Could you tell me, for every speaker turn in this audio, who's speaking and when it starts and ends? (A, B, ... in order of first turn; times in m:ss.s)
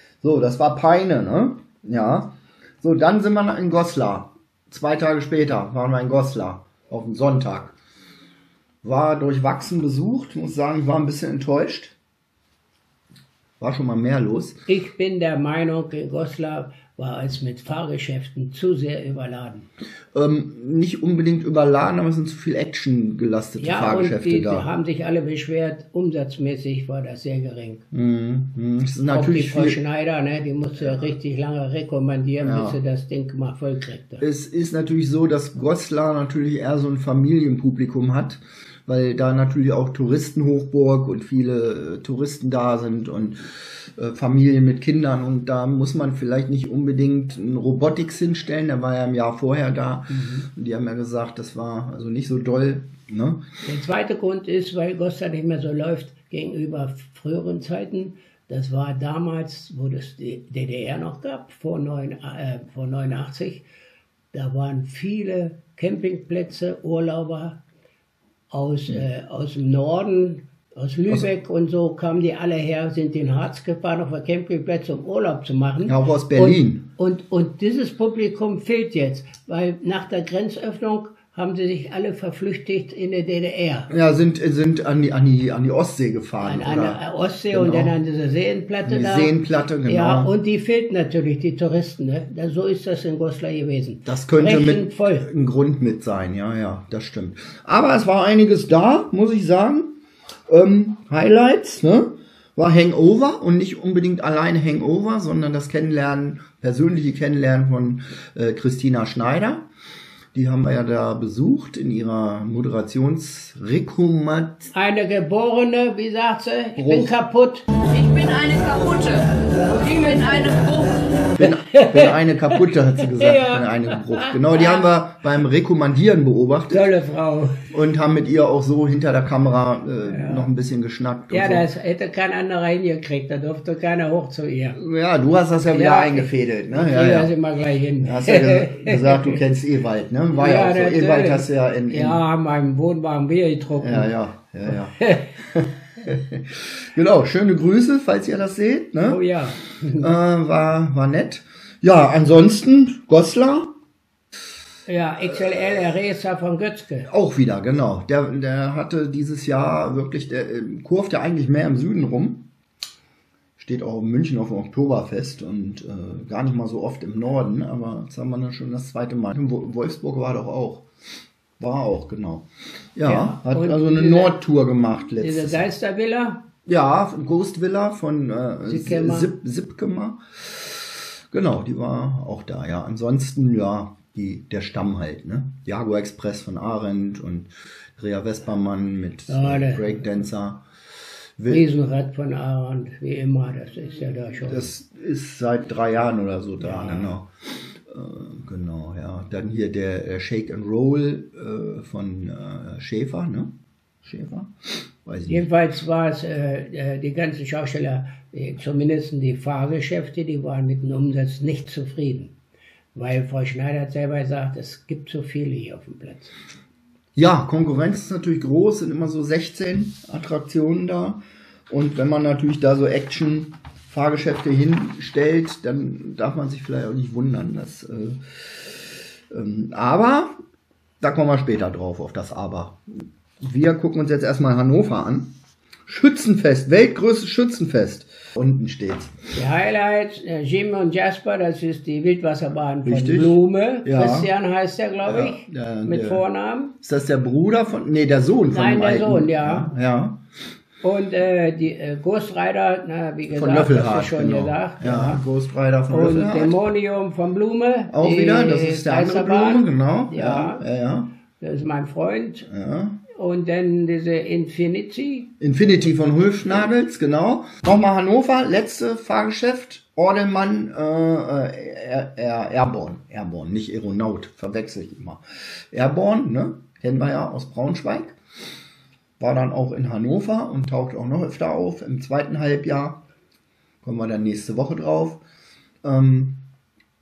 0:00.2-0:07.8 A
0:08.8-0:12.0 A
0:13.6-0:14.6 A
0:14.7-0:19.7 B
0:20.1-0:24.7 A
0:23.6-0:27.8 B
0:27.9-0:29.8 A
0:29.1-0:34.2 B
0:30.8-0:31.1 A
0:32.4-0:32.8 A
0:34.2-0:43.4 A
0:44.0-0:53.4 A
0:50.1-0:50.5 B
0:53.6-1:03.6 B
1:04.3-1:07.6 B
1:08.5-1:23.9 B
1:15.8-1:16.9 A
1:23.9-1:27.9 A
1:26.4-1:29.3 B
1:28.8-1:30.3 A
1:29.9-1:35.3 B
1:34.1-1:40.0 A
1:40.5-1:49.7 A
1:50.3-1:54.7 A
1:54.7-1:57.6 B
1:56.8-1:57.2 A
1:57.9-2:01.0 C
2:01.4-2:06.9 A
2:01.4-2:04.8 B
2:06.7-2:07.6 B
2:07.7-2:11.7 A
2:10.1-2:10.5 B
2:11.3-2:14.8 B
2:14.8-2:17.3 A
2:15.7-2:19.4 B
2:18.0-2:22.2 A
2:20.3-2:24.1 B
2:23.8-2:29.2 A
2:29.0-2:30.1 B
2:30.0-2:33.7 A
2:34.9-2:37.1 B
2:37.1-2:42.5 A
2:43.6-2:50.9 A
2:51.6-2:55.7 A
2:53.0-2:54.4 B
2:55.2-2:56.4 B
2:56.7-3:10.6 A
2:58.7-2:59.3 B
3:09.3-3:09.9 B
3:11.4-3:11.7 A
3:11.5-3:14.7 B
3:14.4-3:17.3 A
3:16.6-3:17.1 B
3:17.9-3:25.5 A
3:25.3-3:32.3 B
3:33.0-3:36.3 B
3:37.2-3:48.2 A
3:49.3-3:50.3 A
3:51.0-3:55.4 A
3:55.9-3:59.2 A
3:59.4-4:06.7 B
4:02.8-4:04.3 A
4:05.1-4:06.2 A
4:06.8-4:10.2 A
4:08.5-4:09.7 B
4:10.8-4:15.2 B
4:13.3-4:16.6 A
4:15.9-4:20.6 B
4:17.9-4:21.1 A
4:21.4-4:22.5 B
4:22.5-4:23.0 A
4:23.1-4:25.3 B
4:25.4-4:38.2 A
4:39.2-4:43.0 A
4:43.8-4:45.2 A
4:45.8-4:46.4 A